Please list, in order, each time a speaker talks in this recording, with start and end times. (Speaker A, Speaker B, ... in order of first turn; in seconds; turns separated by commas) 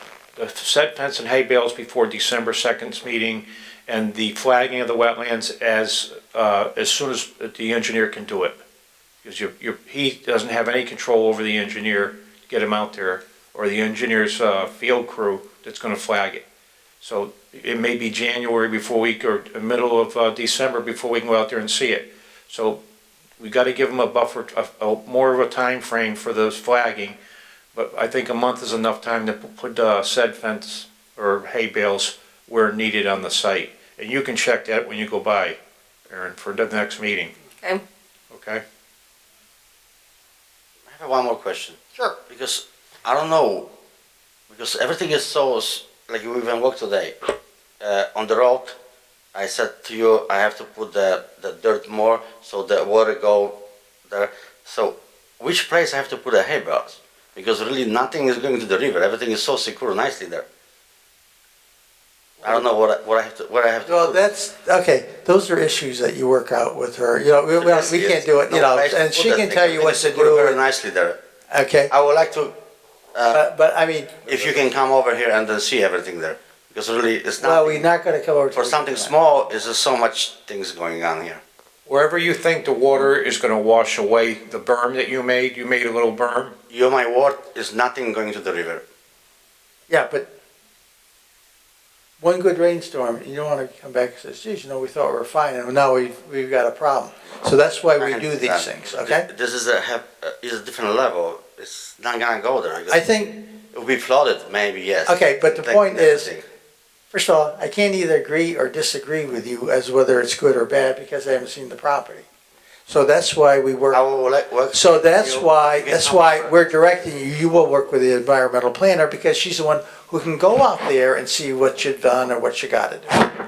Speaker A: 0.4-8.6, Speaker A: 9.2-16.4, Speaker A: 17.0-22.8, Speaker A: 23.4-27.2, Speaker A: 27.7-35.6, Speaker A: 36.1-37.4, Speaker A: 38.3-38.6, Speaker B: 40.9-43.7, Speaker B: 44.5-48.8, Speaker B: 49.3-60.5, Speaker B: 62.4-64.2, Speaker C: 63.9-70.6, Speaker B: 67.6-71.2, Speaker C: 71.5-71.9, Speaker B: 71.9-72.5, Speaker B: 73.1-73.4, Speaker C: 73.3-74.3, Speaker B: 74.3-77.9, Speaker C: 77.4-79.1, Speaker B: 78.5-81.4, Speaker A: 81.9-86.5, Speaker B: 86.7-88.8, Speaker C: 89.9-90.3, Speaker C: 92.2-99.2, Speaker B: 98.0-103.0, Speaker C: 102.9-103.5, Speaker B: 103.7-106.4, Speaker C: 105.1-106.3, Speaker C: 107.1-112.3, Speaker C: 112.9-114.0, Speaker B: 113.9-116.6, Speaker C: 114.7-123.3